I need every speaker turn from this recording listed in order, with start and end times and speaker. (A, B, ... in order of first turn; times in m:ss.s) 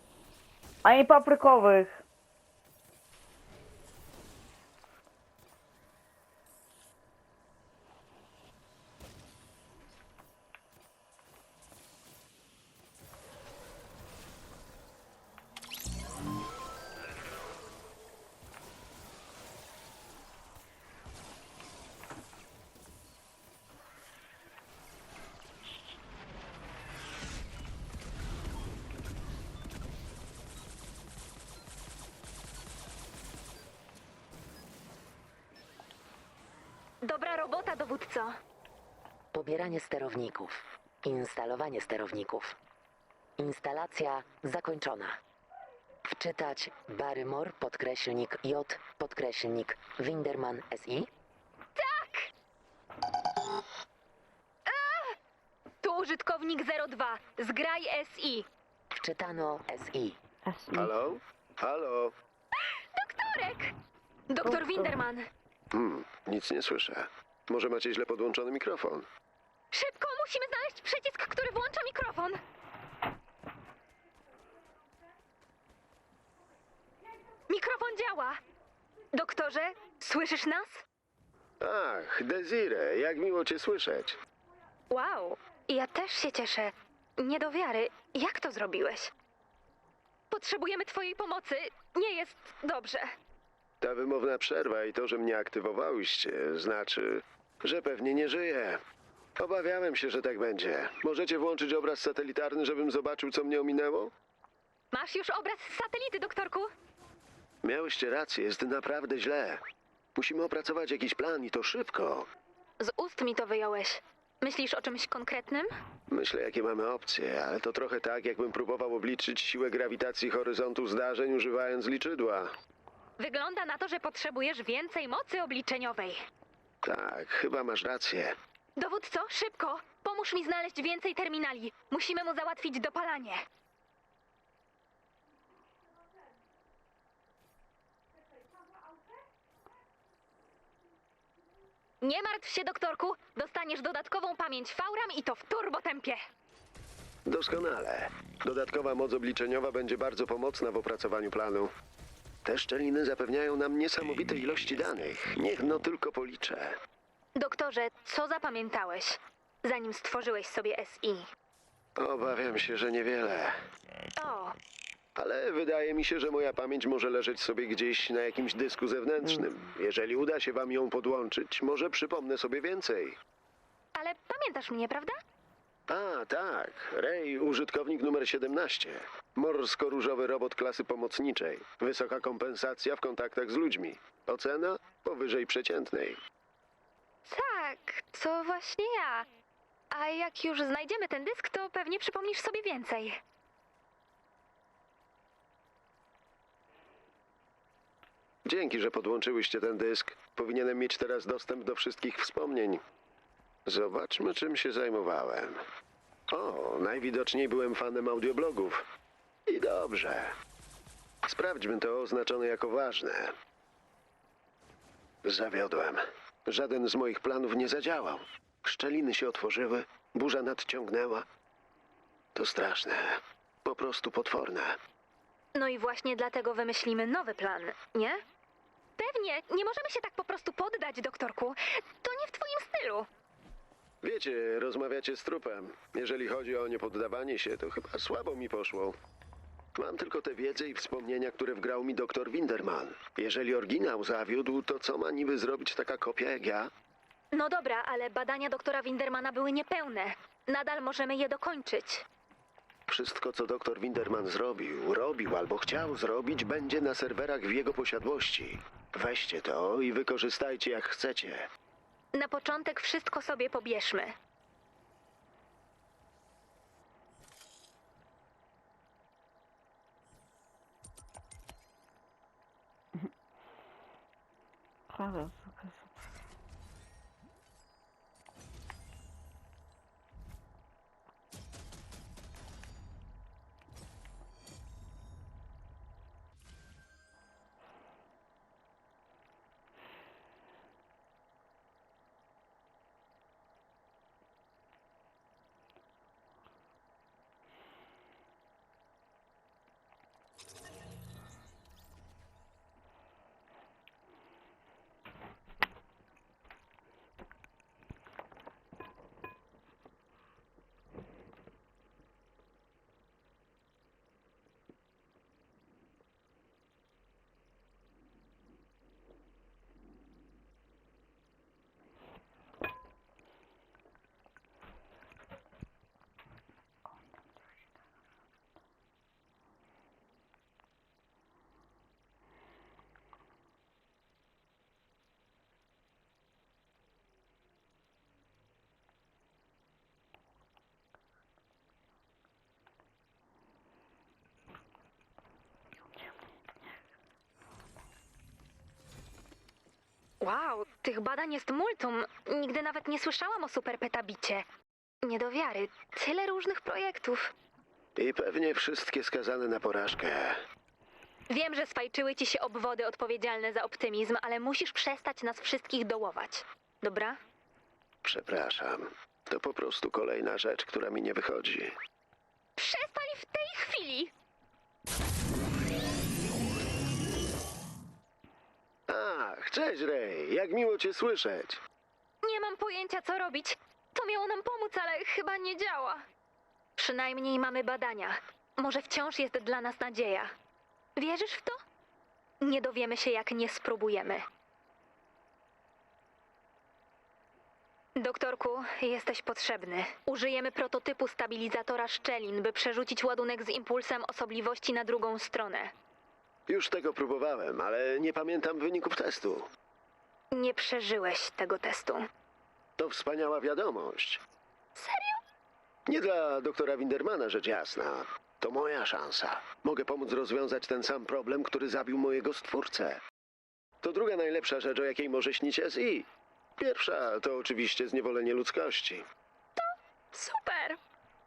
0:00.8-0:02.0 A
0:37.0-0:38.3 B
0:39.3-0:42.6 C
0:43.4-0:45.2 C
0:46.0-0:51.1 C
0:51.8-0:52.3 B
0:54.6-0:55.1 B
0:55.8-0:58.4 B
0:58.9-1:00.2 C
1:00.5-1:00.9 A
1:00.7-1:02.1 D
1:02.6-1:03.7 B
1:04.3-1:05.2 B
1:05.7-1:09.0 D
1:09.7-1:12.4 B
1:17.5-1:18.4 B
1:19.1-1:20.8 B
1:21.6-1:24.2 D
1:24.9-1:29.1 B
1:30.3-1:33.1 B
1:33.8-1:38.8 D
1:39.4-1:44.1 D
1:44.9-1:46.7 B
1:47.6-1:49.6 D
1:50.2-1:52.3 D
1:52.8-1:55.7 B
1:56.1-2:02.5 D
2:03.2-2:06.2 B
2:06.8-2:08.3 D
2:08.8-2:13.4 B
2:22.0-2:26.2 B
2:27.2-2:31.7 D
2:32.4-2:36.7 D
2:37.4-2:41.3 B
2:42.0-2:43.5 D
2:44.2-2:44.5 B
2:45.2-2:53.2 D
2:53.9-2:55.2 B
2:55.9-3:06.2 D
3:07.2-3:09.3 B
3:09.9-3:13.2 B
3:18.4-3:22.8 D
3:23.6-3:25.6 D
3:26.3-3:28.8 D
3:29.5-3:30.3 D
3:31.2-3:33.3 D
3:35.2-3:41.2 D
3:42.3-3:44.8 D
3:45.5-3:48.2 B
3:49.0-3:53.1 B
3:54.0-3:59.0 D
3:59.8-4:06.7 D
4:07.3-4:12.0 B
4:12.9-4:21.5 D
4:22.1-4:24.1 B
4:34.9-4:35.9 A
5:50.2-5:54.4 B
5:55.0-5:57.3 B
5:58.0-6:00.4 D
6:01.3-6:07.2 B
6:08.0-6:11.7 D
6:12.6-6:14.1 B
6:18.9-6:21.6 D
6:22.2-6:26.0 B
6:26.8-6:30.3 B
6:31.0-6:31.6 B
6:32.4-6:34.2 B
6:38.0-6:45.7 B
6:46.5-6:49.5 D
6:50.3-6:52.0 B
6:52.8-6:54.2 D
6:54.8-6:55.2 B
6:55.9-7:03.0 D
7:03.8-7:06.1 D
7:06.6-7:09.0 D
7:09.6-7:10.8 B